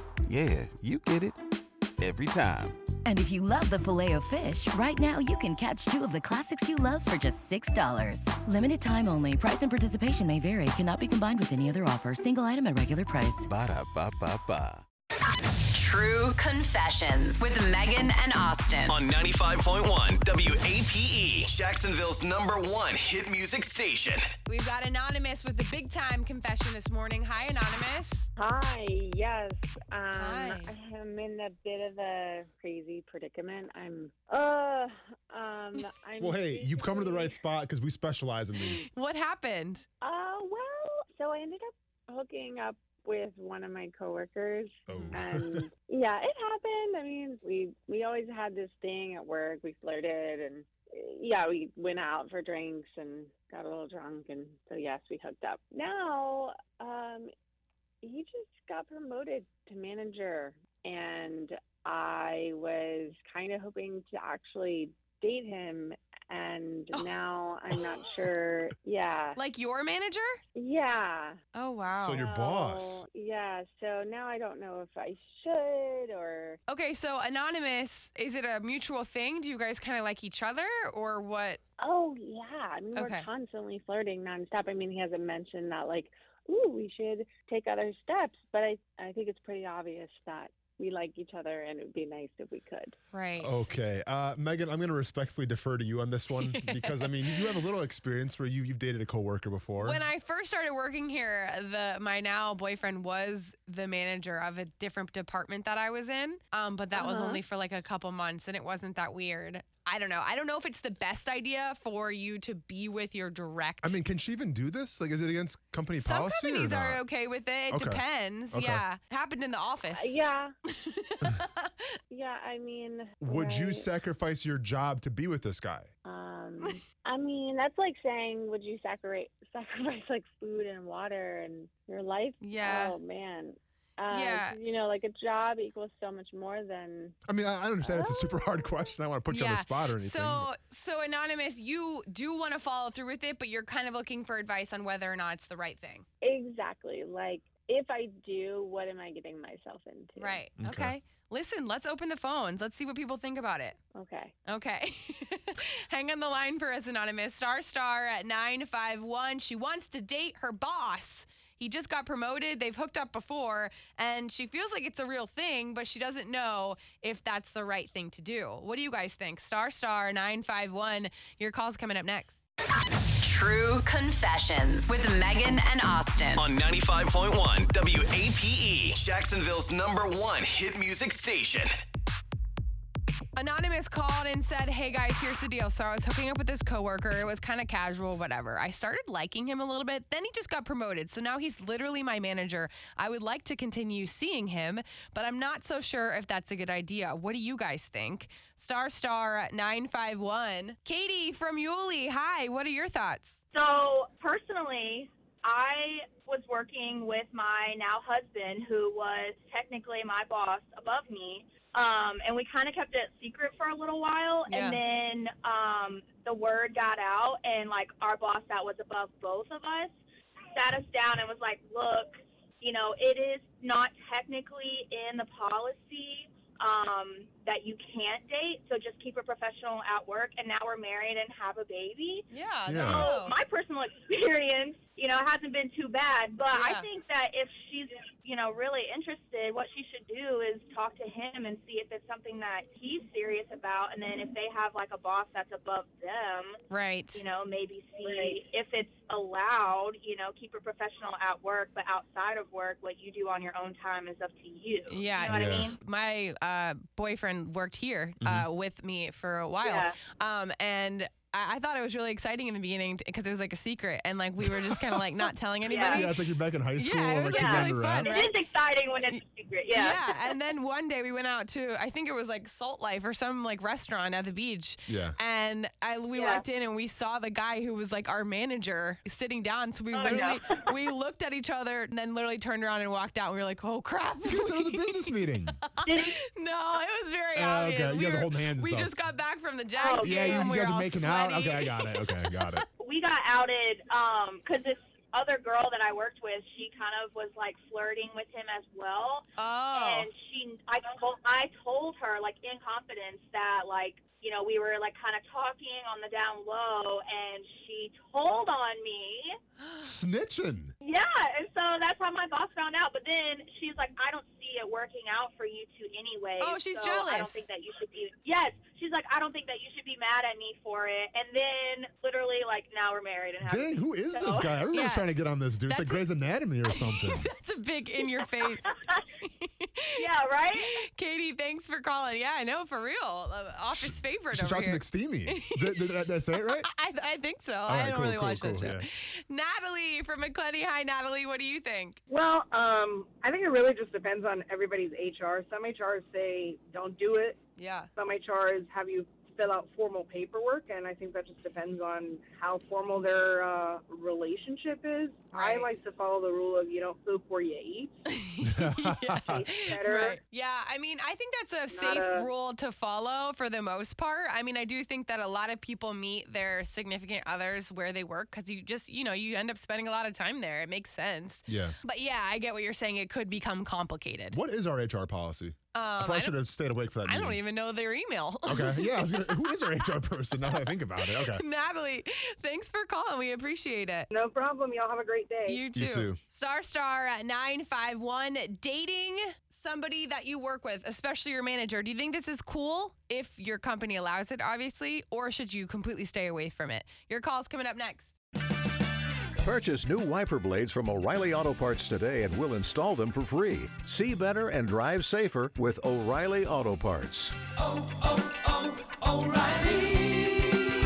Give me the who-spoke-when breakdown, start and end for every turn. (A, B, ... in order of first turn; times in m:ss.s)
0:00.2-0:01.4 A
0:02.0-0:02.9 A
0:03.0-0:13.5 B
0:13.4-0:14.8 A
0:15.7-0:19.0 C
0:18.9-0:24.2 D
0:24.5-0:28.3 E
0:28.4-0:37.4 F
0:30.1-0:30.7 E
0:36.2-0:38.9 G
0:38.6-0:39.9 E
0:40.0-0:57.3 F
0:44.9-0:45.7 G
0:44.9-0:45.2 E
0:58.0-1:09.4 F
1:09.4-1:10.4 E
1:10.6-1:11.4 F
1:11.6-1:12.3 E
1:11.9-1:13.0 G
1:12.2-1:16.6 F
1:16.7-1:21.6 E
1:21.8-1:33.0 F
1:22.9-1:23.3 E
1:33.1-1:33.7 E
1:33.4-1:40.1 G
1:36.4-1:37.6 E
1:39.8-1:54.0 E
1:47.0-1:47.4 F
1:53.8-1:57.0 G
1:56.0-2:00.2 E
1:57.7-1:58.8 G
1:59.9-2:00.5 F
2:00.7-2:02.0 E
2:02.1-2:03.9 F
2:03.2-2:05.9 G
2:06.0-2:17.2 F
2:12.4-2:13.0 E
2:14.1-2:14.6 E
2:17.3-2:20.5 G
2:17.8-2:18.9 F
2:19.3-2:26.0 E
2:26.2-2:30.4 F
2:30.2-2:33.8 E
2:30.6-2:30.9 G
2:33.9-2:34.3 F
2:34.4-2:52.4 E
2:53.2-2:56.4 C
2:56.4-2:58.6 D
3:01.2-3:01.4 D
3:03.4-3:23.4 E
3:23.5-3:40.0 H
3:34.5-3:34.8 E
3:40.6-3:52.2 H
3:52.3-3:53.3 E
3:52.7-3:53.1 G
3:52.8-4:06.6 H
3:56.5-3:56.8 E
4:06.7-4:07.2 E
4:07.1-4:15.8 H
4:14.9-4:26.2 E
4:15.3-4:15.7 G
4:18.2-4:18.5 G
4:19.6-4:19.9 H
4:25.7-4:26.1 H
4:25.9-4:28.1 G
4:26.8-4:28.3 E
4:27.3-4:30.0 H
4:29.7-4:52.6 E
4:34.9-4:35.2 G
4:36.1-4:36.4 H
4:39.9-4:40.7 H
4:44.2-4:45.6 G
4:45.8-4:46.2 H
4:47.3-4:49.0 G
4:49.8-4:50.5 H
4:50.0-4:52.6 G
4:52.8-5:09.4 H
4:59.4-5:00.1 E
5:09.6-5:09.9 E
5:09.8-5:10.7 G
5:10.8-5:24.6 H
5:16.4-5:17.4 E
5:23.4-5:27.3 G
5:24.7-5:25.1 E
5:25.6-5:26.1 E
5:26.7-5:30.0 E
5:30.0-5:30.8 H
5:30.6-5:42.0 E
5:33.7-5:36.7 G
5:37.6-5:38.9 G
5:42.1-5:47.4 I
5:47.6-5:47.9 E
5:48.0-5:58.0 I
5:55.3-5:55.8 E
5:58.1-6:14.4 E
5:58.5-5:59.4 G
5:59.3-6:00.2 I
6:01.7-6:02.3 I
6:11.5-6:11.8 G
6:14.3-6:17.4 G
6:15.7-6:16.4 E
6:17.0-6:24.1 E
6:18.4-6:21.4 G
6:24.1-6:25.6 I
6:25.4-6:38.2 E
6:25.7-6:26.2 G
6:39.4-6:47.4 J
6:48.4-6:50.4 J